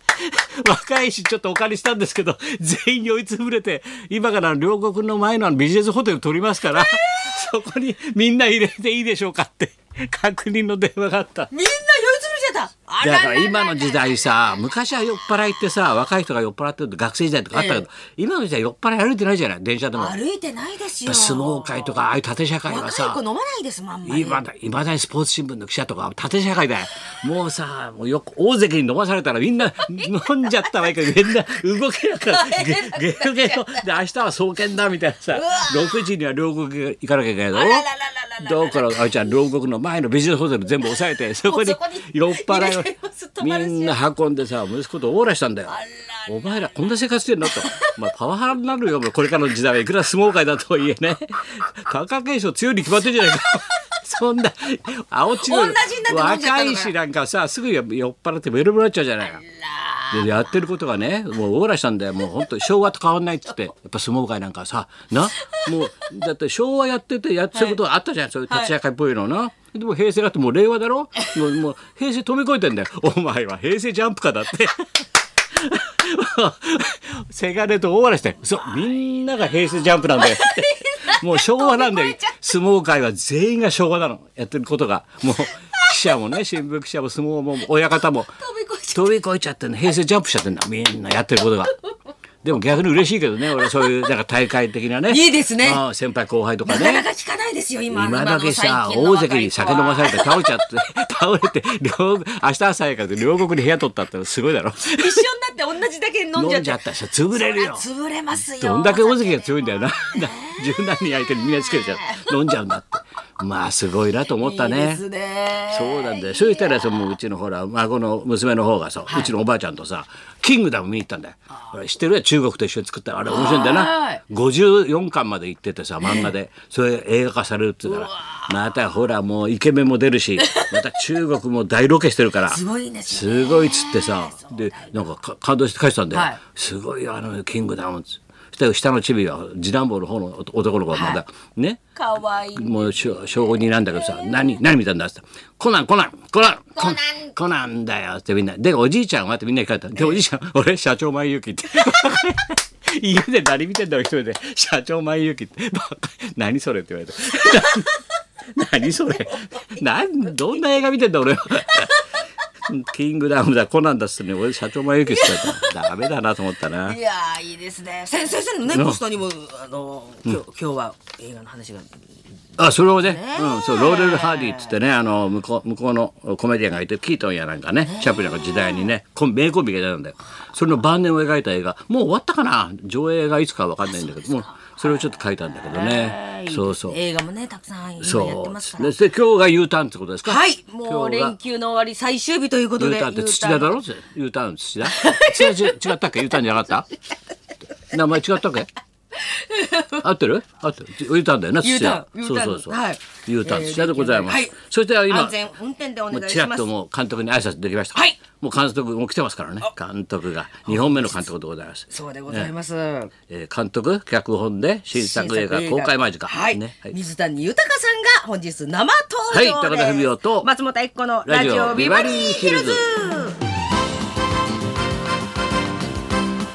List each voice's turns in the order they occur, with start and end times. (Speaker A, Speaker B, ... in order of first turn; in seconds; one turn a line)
Speaker A: 0.2-11.5
Speaker B: 6.7-7.3
Speaker B: 11.5-14.2
Speaker A: 13.0-20.2
Speaker B: 17.5-17.9
Speaker B: 19.9-22.0
Speaker A: 21.1-23.2
Speaker B: 22.7-24.4
Speaker A: 24.1-37.9
Speaker B: 30.0-30.9
Speaker B: 32.2-33.9
Speaker B: 35.3-36.0
Speaker B: 37.5-39.2
Speaker A: 38.4-59.4
Speaker B: 40.8-44.0
Speaker B: 45.7-46.8
Speaker B: 47.4-48.0
Speaker B: 55.4-56.9
Speaker B: 59.3-60.3
Speaker A: 60.1-88.4
Speaker B: 67.5-67.8
Speaker B: 80.0-82.4
Speaker B: 88.4-89.2
Speaker A: 88.9-91.8
Speaker A: 92.4-97.0
Speaker B: 93.6-93.9
Speaker B: 95.1-95.8
Speaker B: 96.7-100.7
Speaker A: 97.9-105.2
Speaker B: 104.9-106.8
Speaker A: 106.3-107.9
Speaker B: 107.3-110.8
Speaker A: 108.6-115.0
Speaker B: 111.6-112.4
Speaker B: 114.4-117.0
Speaker A: 115.7-141.8
Speaker B: 119.1-119.3
Speaker B: 123.3-124.2
Speaker B: 126.0-126.3
Speaker B: 127.9-128.5
Speaker B: 130.4-130.8
Speaker B: 132.5-135.1
Speaker B: 136.1-136.4
Speaker B: 140.9-141.2
Speaker B: 141.9-144.6
Speaker A: 142.6-158.0
Speaker B: 146.8-147.3
Speaker A: 158.5-162.1
Speaker B: 161.7-162.1
Speaker A: 162.7-167.0
Speaker B: 165.1-165.7
Speaker B: 166.9-172.0
Speaker A: 168.7-169.0
Speaker A: 172.6-187.0
Speaker B: 173.0-174.8
Speaker B: 177.8-178.9
Speaker B: 184.0-185.0
Speaker B: 185.6-188.9
Speaker A: 188.0-191.4
Speaker B: 190.2-193.8
Speaker A: 192.8-196.9
Speaker B: 194.8-195.9
Speaker A: 197.9-198.7
Speaker B: 199.2-200.0
Speaker A: 200.0-205.4
Speaker B: 201.6-204.6
Speaker B: 205.1-206.7
Speaker A: 206.1-212.5
Speaker B: 207.9-208.2
Speaker B: 210.7-211.2
Speaker B: 211.9-213.1
Speaker A: 213.3-217.0
Speaker B: 214.9-223.4
Speaker A: 219.3-220.5
Speaker A: 221.3-222.8